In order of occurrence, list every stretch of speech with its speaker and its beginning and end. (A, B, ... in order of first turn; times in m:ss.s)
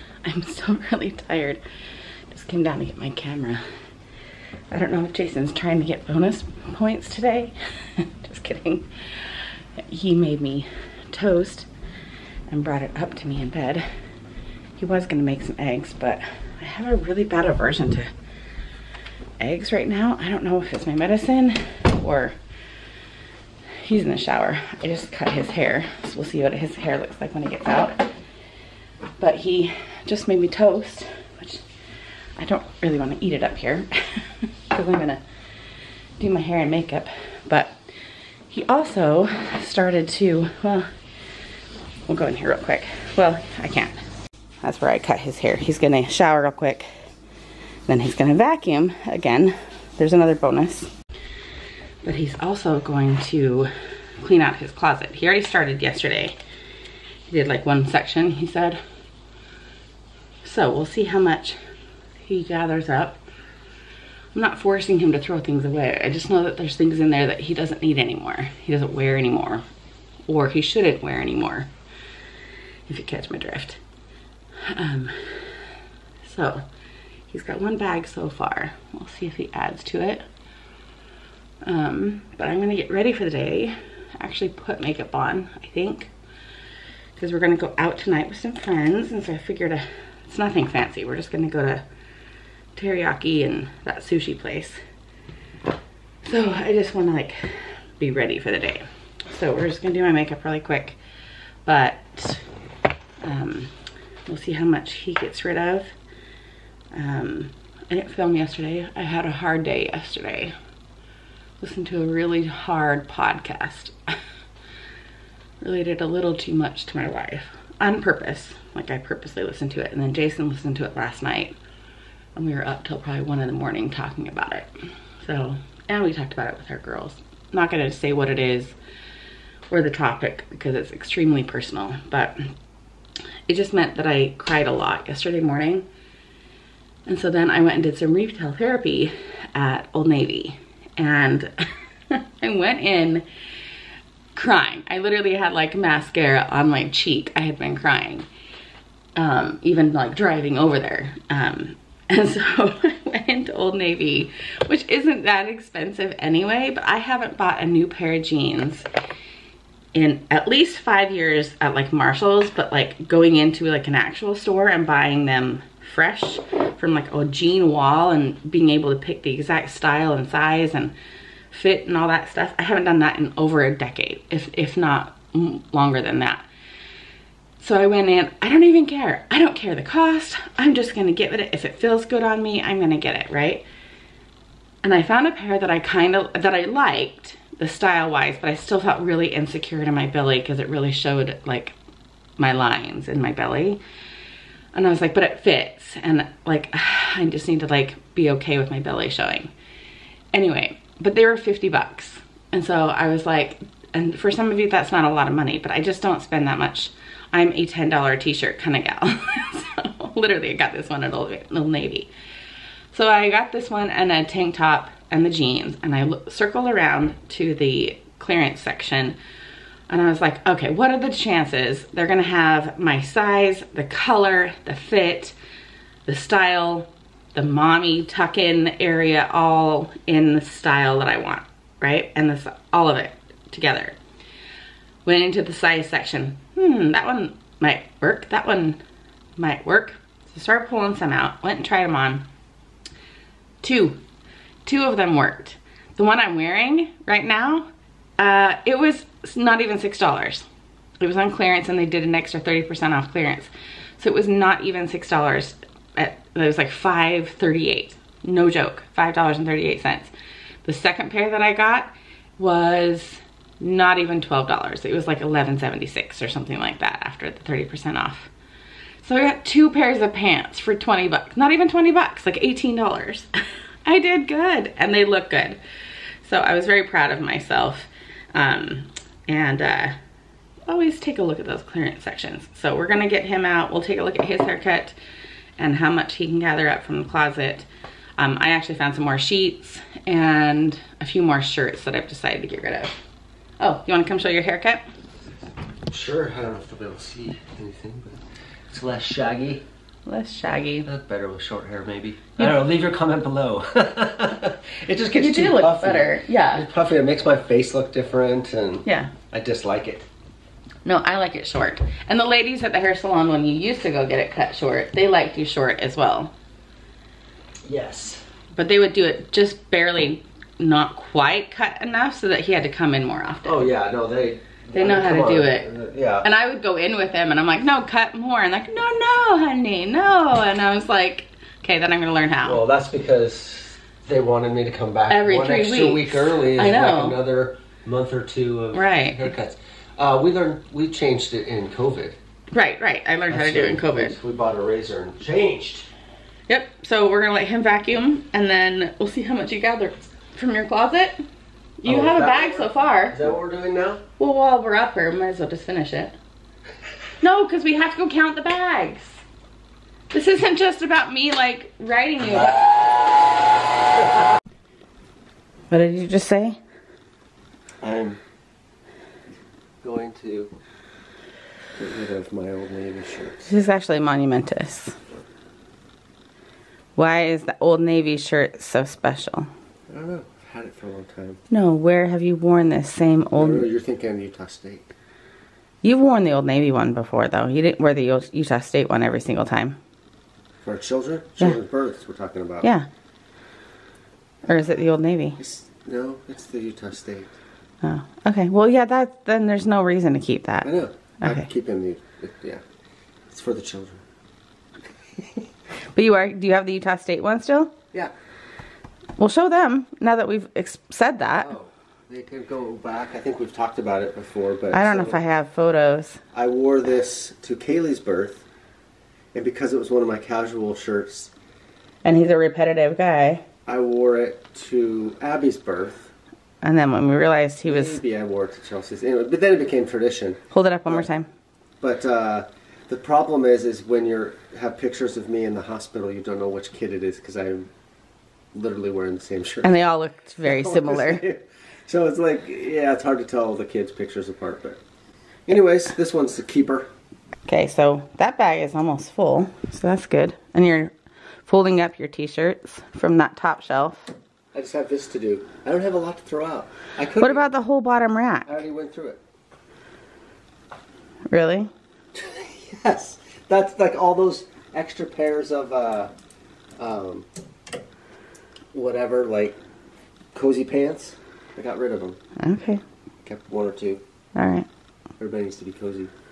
0:00.2-0:01.6 A
0:02.3-0:03.6 A
0:04.7-0:11.7 A
0:12.5-0:13.8 A
0:14.8-0:18.1 A
0:19.4-0:22.4 A
0:23.8-0:28.1 A
0:29.2-0:31.6 A
0:32.4-0:35.2 A
0:36.2-0:37.7 A
0:38.5-0:40.9 A
0:42.1-0:43.9 A
0:44.6-0:46.9 A
0:47.9-0:50.9 A
0:52.0-0:56.4 A
0:57.3-0:58.8 A
1:00.4-1:01.6 A
1:02.2-1:03.2 A
1:04.3-1:09.6 A
1:10.3-1:11.7 A
1:12.9-1:13.8 A
1:14.6-1:15.5 A
1:16.2-1:16.6 A
1:17.3-1:20.2 A
1:21.6-1:26.1 A
1:27.2-1:31.8 A
1:32.8-1:34.8 A
1:36.2-1:41.0 A
1:41.6-1:42.4 A
1:43.2-1:43.7 A
1:44.3-1:45.9 A
1:46.9-1:50.5 A
1:51.6-1:54.1 A
1:55.6-2:01.6 A
2:02.3-2:04.7 A
2:05.2-2:08.7 A
2:09.7-2:12.5 A
2:13.5-2:15.9 A
2:17.0-2:21.5 A
2:22.1-2:23.2 A
2:24.3-2:28.3 A
2:29.2-2:38.8 A
2:39.9-2:50.9 A
2:51.5-2:56.4 A
2:57.6-3:03.6 A
3:04.8-3:11.8 A
3:12.4-3:13.8 A
3:14.7-3:19.5 A
3:20.3-3:32.1 A
3:32.9-3:39.2 A
3:39.9-3:45.3 A
3:46.0-3:54.0 A
3:55.0-3:58.8 A
3:59.4-4:02.2 A
4:03.6-4:04.0 A
4:04.6-4:10.4 A
4:11.0-4:20.1 A
4:20.6-4:28.3 A
4:29.0-4:33.3 A
4:33.8-4:35.6 A
4:36.2-4:40.0 A
4:40.7-4:45.0 A
4:45.6-4:47.7 A
4:48.2-4:52.9 A
4:53.6-4:54.8 A
4:55.9-4:59.6 B
5:00.0-5:00.9 A
5:00.8-5:10.1 B
5:05.1-5:06.6 A
5:08.8-5:09.1 A
5:10.8-5:16.3 A
5:17.6-5:18.2 B
5:18.6-5:23.7 A
5:23.4-5:26.2 B
5:24.7-5:25.7 A
5:26.2-5:32.6 A
5:32.4-5:42.2 B
5:35.1-5:37.2 A
5:38.7-5:39.3 A
5:42.5-5:44.2 A
5:43.3-5:45.9 B
5:46.5-5:51.2 A
5:51.8-5:53.2 A
5:51.8-5:54.0 B
5:54.2-5:56.2 A
5:57.2-5:59.2 A
6:00.1-6:02.7 A
6:05.7-6:06.6 A
6:07.8-6:08.2 B
6:09.8-6:10.5 B
6:11.8-6:13.5 B
6:13.4-6:15.0 A
6:17.0-6:19.5 A
6:19.9-6:21.4 B
6:21.5-6:23.7 A
6:23.4-6:24.8 B
6:25.8-6:29.8 A
6:30.6-6:32.7 B
6:32.6-6:32.9 A
6:34.4-6:35.4 A
6:35.4-6:37.3 B
6:37.8-6:41.4 A
6:40.6-6:42.6 B
6:43.3-6:44.0 B
6:45.9-6:47.7 A
6:49.2-6:51.5 A
6:51.4-6:55.2 B
6:54.7-6:56.2 A
6:56.3-6:58.4 B
6:59.3-7:01.3 B
7:02.0-7:03.4 A
7:03.6-7:06.1 B
7:06.6-7:08.0 A
7:07.6-7:11.1 B
7:10.5-7:11.3 A
7:11.8-7:17.7 B
7:18.5-7:19.7 B
7:19.6-7:21.2 A
7:20.4-7:24.8 B
7:25.5-7:26.9 B
7:27.5-7:30.9 A
7:31.5-7:34.1 A
7:34.5-7:37.4 B
7:37.2-7:38.6 A
7:38.4-7:39.2 B
7:41.3-7:41.7 A
7:42.1-7:46.1 B
7:46.8-7:47.3 B
7:48.7-7:49.6 B
7:50.3-7:52.2 B
7:52.4-7:52.8 A
7:53.2-7:54.0 B
7:54.3-7:54.7 A
7:55.2-7:56.1 B